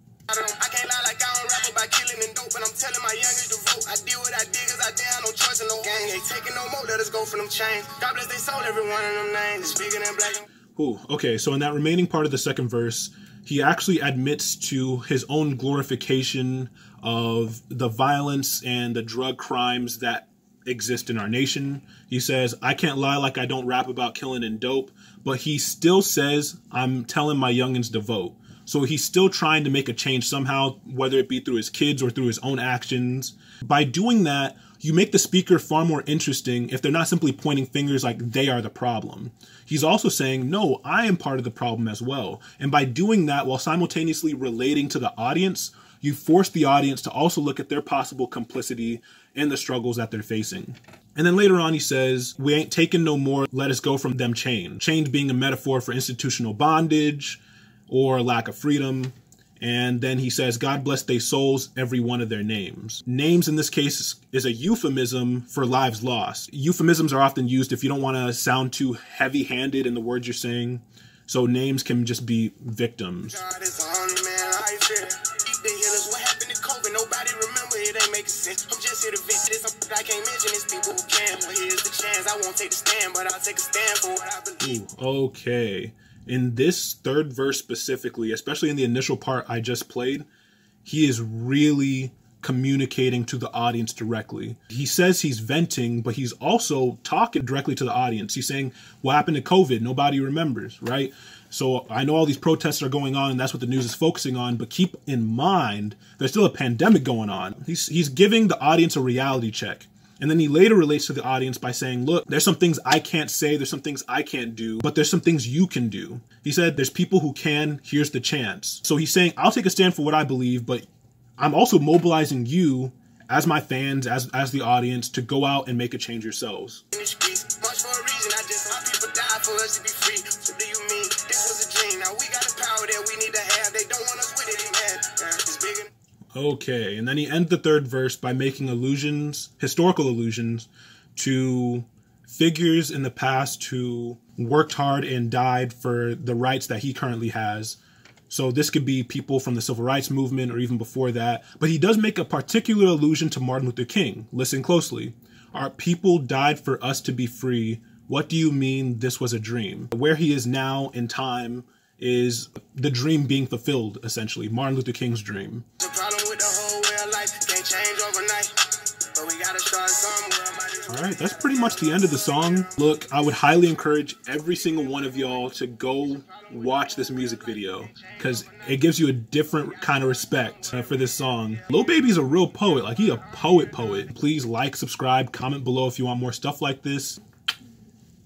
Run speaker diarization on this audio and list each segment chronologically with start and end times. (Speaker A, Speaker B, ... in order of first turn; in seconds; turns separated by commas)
Speaker A: 0.3-10.4, Speaker B: 10.7-73.4, Speaker A: 73.3-84.8, Speaker B: 84.6-90.3, Speaker B: 90.8-120.8, Speaker B: 121.4-126.8, Speaker A: 126.9-135.9, Speaker B: 136.3-147.8, Speaker B: 148.3-165.7, Speaker A: 165.8-173.6, Speaker B: 170.9-187.2, Speaker A: 174.2-182.3